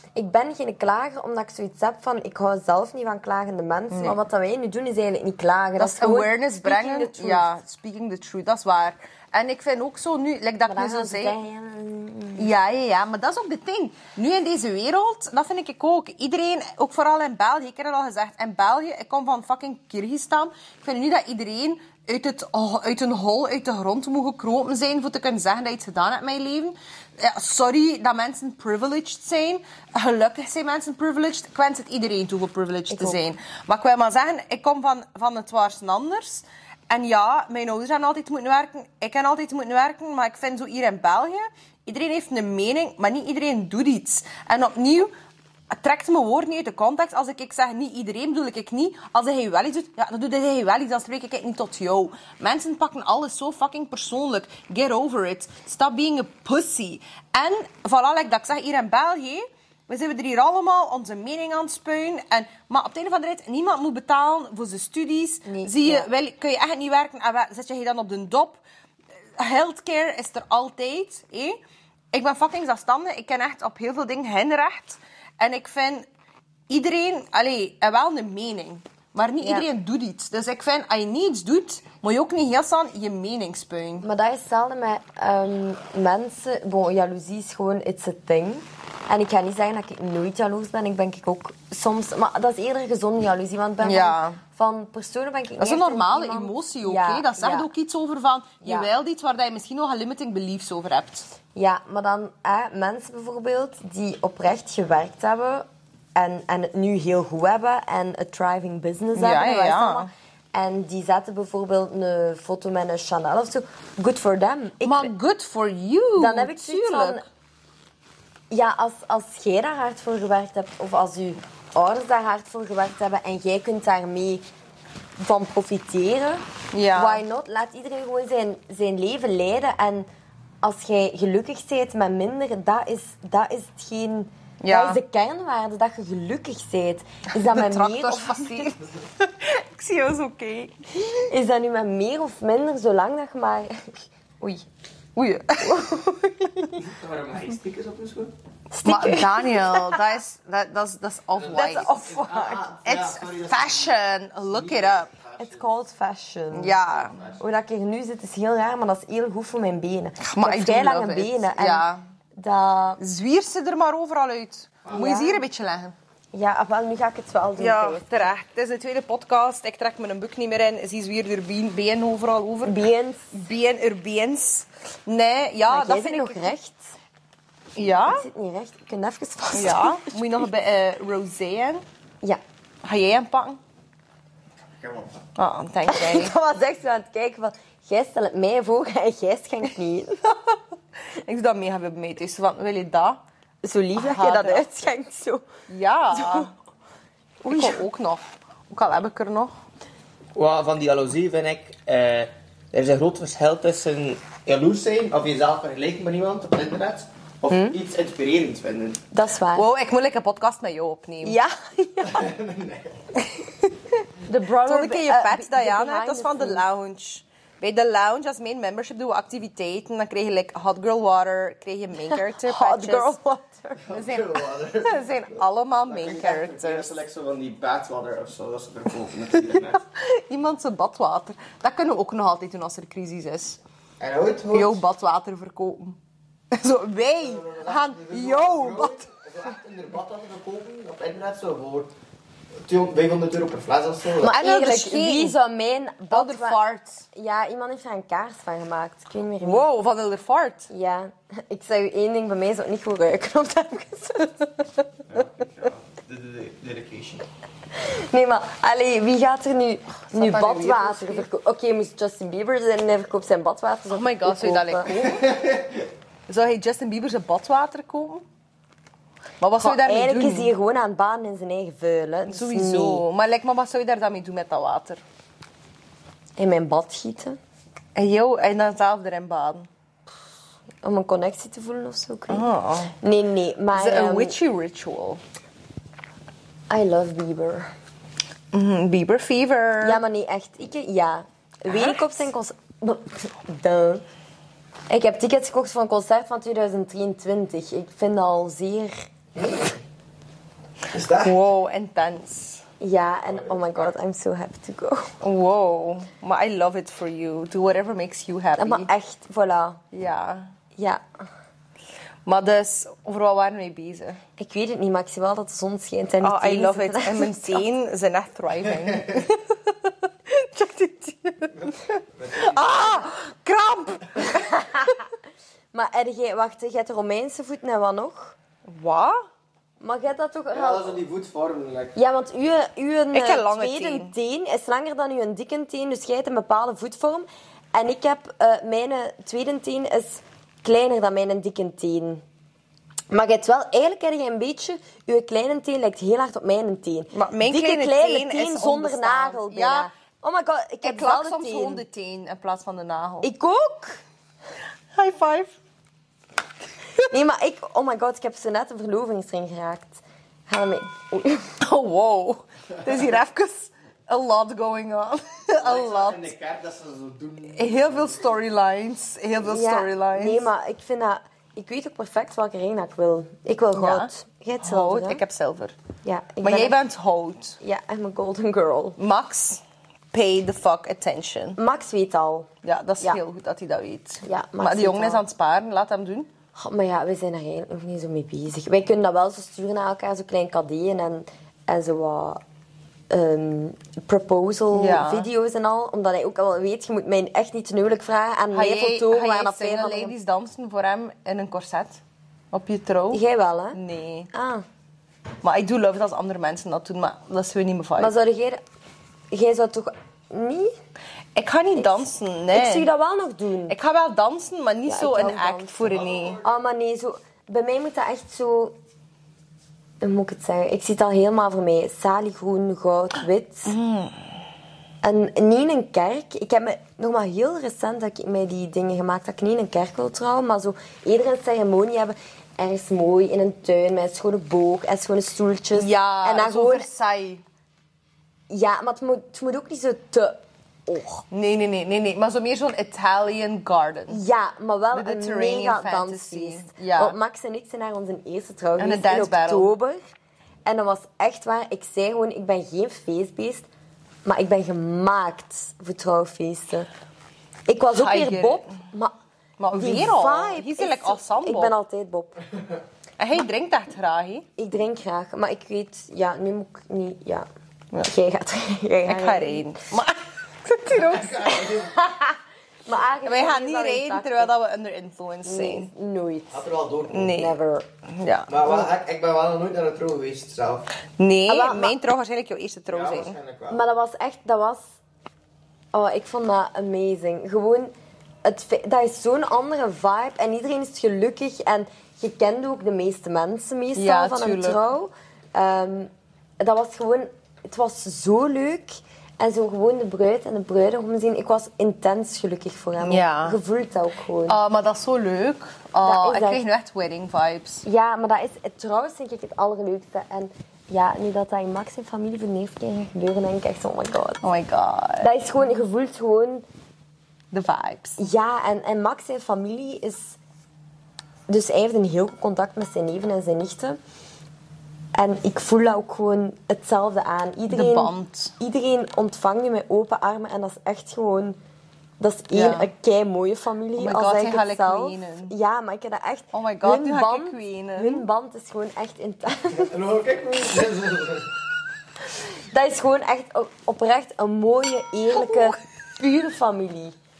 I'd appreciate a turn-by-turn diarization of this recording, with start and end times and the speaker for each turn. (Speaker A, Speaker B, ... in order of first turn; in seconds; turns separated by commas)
Speaker A: 0.1-7.5, Speaker B: 3.9-4.2, Speaker B: 5.8-11.3, Speaker A: 10.7-12.5, Speaker B: 12.3-45.1, Speaker A: 32.9-33.2, Speaker B: 45.7-68.6, Speaker A: 65.5-66.1, Speaker B: 69.4-71.6, Speaker B: 72.1-76.0, Speaker B: 76.7-84.1, Speaker A: 79.4-79.7, Speaker A: 84.0-97.7, Speaker B: 93.8-94.4, Speaker B: 95.6-101.3, Speaker A: 98.6-98.9, Speaker A: 101.5-115.1, Speaker B: 109.1-110.1, Speaker B: 114.8-117.2, Speaker A: 116.2-117.2, Speaker A: 118.5-124.4, Speaker A: 125.2-126.4, Speaker B: 126.7-127.2, Speaker A: 126.9-130.1, Speaker A: 130.6-138.7, Speaker B: 134.6-135.0, Speaker B: 137.3-141.2, Speaker A: 141.3-143.7, Speaker A: 144.4-144.6, Speaker B: 145.2-146.7, Speaker A: 145.6-146.0, Speaker C: 146.8-148.3, Speaker A: 148.7-150.0, Speaker B: 148.8-152.1, Speaker C: 151.3-155.6, Speaker A: 151.5-152.6, Speaker B: 152.8-155.1, Speaker A: 155.4-156.8, Speaker B: 156.5-157.2, Speaker C: 156.9-157.4, Speaker A: 157.4-161.8, Speaker B: 160.2-162.0, Speaker A: 162.3-163.0, Speaker B: 163.0-165.9, Speaker A: 164.9-165.4, Speaker A: 166.3-168.3, Speaker B: 167.6-172.8, Speaker A: 172.7-173.3, Speaker B: 173.3-176.5, Speaker A: 175.7-176.9, Speaker B: 177.8-178.2, Speaker A: 178.0-180.1, Speaker B: 179.5-181.8, Speaker B: 182.8-183.6, Speaker C: 184.8-185.2, Speaker B: 185.4-186.3, Speaker A: 185.9-190.2, Speaker B: 191.1-193.2, Speaker A: 193.6-195.4, Speaker B: 193.9-194.7, Speaker B: 195.7-196.5, Speaker A: 196.1-196.5, Speaker A: 197.4-197.8, Speaker B: 197.5-199.5, Speaker C: 200.3-209.0, Speaker A: 207.5-207.8, Speaker A: 209.1-209.7, Speaker B: 209.5-211.4, Speaker A: 211.2-212.3, Speaker C: 212.1-213.0, Speaker B: 213.2-213.7, Speaker A: 214.2-216.6, Speaker B: 214.6-223.2, Speaker A: 222.4-223.8, Speaker C: 223.8-229.8, Speaker B: 223.9-227.0, Speaker B: 229.7-233.6, Speaker C: 234.0-234.8, Speaker B: 234.5-236.0, Speaker B: 236.5-239.1, Speaker C: 237.2-241.9, Speaker C: 242.6-244.3, Speaker A: 244.2-246.6, Speaker B: 244.2-245.3, Speaker B: 246.1-247.1, Speaker A: 247.1-249.6, Speaker B: 249.4-250.7, Speaker A: 250.7-254.5, Speaker C: 255.1-257.2, Speaker A: 257.7-264.9, Speaker B: 260.0-261.2, Speaker B: 263.9-265.4, Speaker C: 265.2-265.8, Speaker B: 266.3-268.2, Speaker B: 269.4-270.5, Speaker A: 269.6-273.0, Speaker B: 272.3-275.0, Speaker A: 276.4-277.4, Speaker B: 277.9-279.7, Speaker A: 280.8-282.4, Speaker B: 282.3-282.9, Speaker A: 283.0-284.4, Speaker B: 283.7-285.2, Speaker A: 286.7-287.7, Speaker B: 288.5-290.0, Speaker A: 289.8-294.0, Speaker B: 291.7-292.1, Speaker A: 294.9-298.9, Speaker C: 299.4-299.8, Speaker C: 300.9-301.3, Speaker B: 301.1-302.6, Speaker A: 302.8-305.1, Speaker C: 303.3-303.9, Speaker B: 305.2-308.9, Speaker A: 308.6-309.8, Speaker B: 309.9-310.5, Speaker A: 310.8-311.0, Speaker B: 312.2-314.2, Speaker A: 314.4-317.6, Speaker B: 316.2-321.6, Speaker C: 321.6-323.1, Speaker B: 322.3-324.6, Speaker A: 324.4-324.9, Speaker A: 325.7-328.3, Speaker B: 328.7-329.2, Speaker A: 329.8-331.0, Speaker C: 330.5-331.9, Speaker A: 331.9-342.2, Speaker B: 333.1-334.1, Speaker A: 343.1-351.8, Speaker B: 347.1-349.9, Speaker B: 350.8-353.3, Speaker A: 353.2-354.0, Speaker B: 354.9-355.5, Speaker A: 357.1-361.5, Speaker B: 361.6-366.3, Speaker C: 365.6-368.3, Speaker B: 367.5-370.5, Speaker A: 369.4-375.2, Speaker B: 373.8-374.1, Speaker B: 374.6-375.8, Speaker A: 376.0-376.8, Speaker B: 376.4-377.6, Speaker A: 377.6-379.0, Speaker B: 379.0-379.6, Speaker B: 380.1-381.6, Speaker A: 381.6-382.5, Speaker B: 382.6-386.3, Speaker A: 384.2-385.2, Speaker A: 386.5-392.4, Speaker A: 393.1-400.1, Speaker B: 394.7-395.3, Speaker B: 398.5-403.2, Speaker A: 403.1-403.8, Speaker B: 403.7-404.3, Speaker A: 404.3-404.6, Speaker B: 405.4-408.1, Speaker A: 408.0-408.6, Speaker A: 409.3-410.7, Speaker B: 411.3-412.9, Speaker A: 411.8-413.8, Speaker B: 413.7-416.4, Speaker A: 414.9-418.8, Speaker C: 415.8-416.4, Speaker A: 420.0-423.7, Speaker B: 423.6-424.2, Speaker A: 425.0-436.9, Speaker B: 435.8-437.4, Speaker A: 438.5-441.2, Speaker B: 441.3-444.2, Speaker A: 444.1-450.0, Speaker B: 444.9-447.1, Speaker B: 448.8-449.7, Speaker A: 450.6-453.7, Speaker A: 454.2-456.9, Speaker A: 457.7-459.1, Speaker B: 457.9-458.7, Speaker B: 459.6-461.7, Speaker A: 459.7-462.4, Speaker B: 463.2-464.5, Speaker A: 464.6-467.5, Speaker A: 468.1-469.7, Speaker B: 469.1-472.3, Speaker C: 470.9-471.9, Speaker A: 472.9-474.5, Speaker B: 473.2-475.9, Speaker A: 475.4-476.6, Speaker C: 476.5-477.4, Speaker B: 477.1-477.5, Speaker A: 477.2-477.9, Speaker B: 478.1-478.5, Speaker C: 478.5-480.9, Speaker B: 481.2-483.4, Speaker A: 481.5-481.9, Speaker C: 482.9-483.8, Speaker A: 483.7-485.0, Speaker A: 485.9-504.6, Speaker B: 493.9-494.8, Speaker B: 503.0-503.6, Speaker B: 504.4-507.8, Speaker A: 506.0-506.6, Speaker A: 507.9-514.4, Speaker B: 514.4-515.3, Speaker A: 515.2-516.6, Speaker B: 517.5-518.2, Speaker A: 518.2-520.4, Speaker A: 521.5-524.0, Speaker A: 525.1-531.6, Speaker B: 527.7-528.5, Speaker A: 532.2-540.0, Speaker B: 532.5-532.9, Speaker B: 534.0-535.5, Speaker B: 536.5-538.2, Speaker C: 539.7-541.5, Speaker A: 542.3-547.1, Speaker B: 545.4-545.7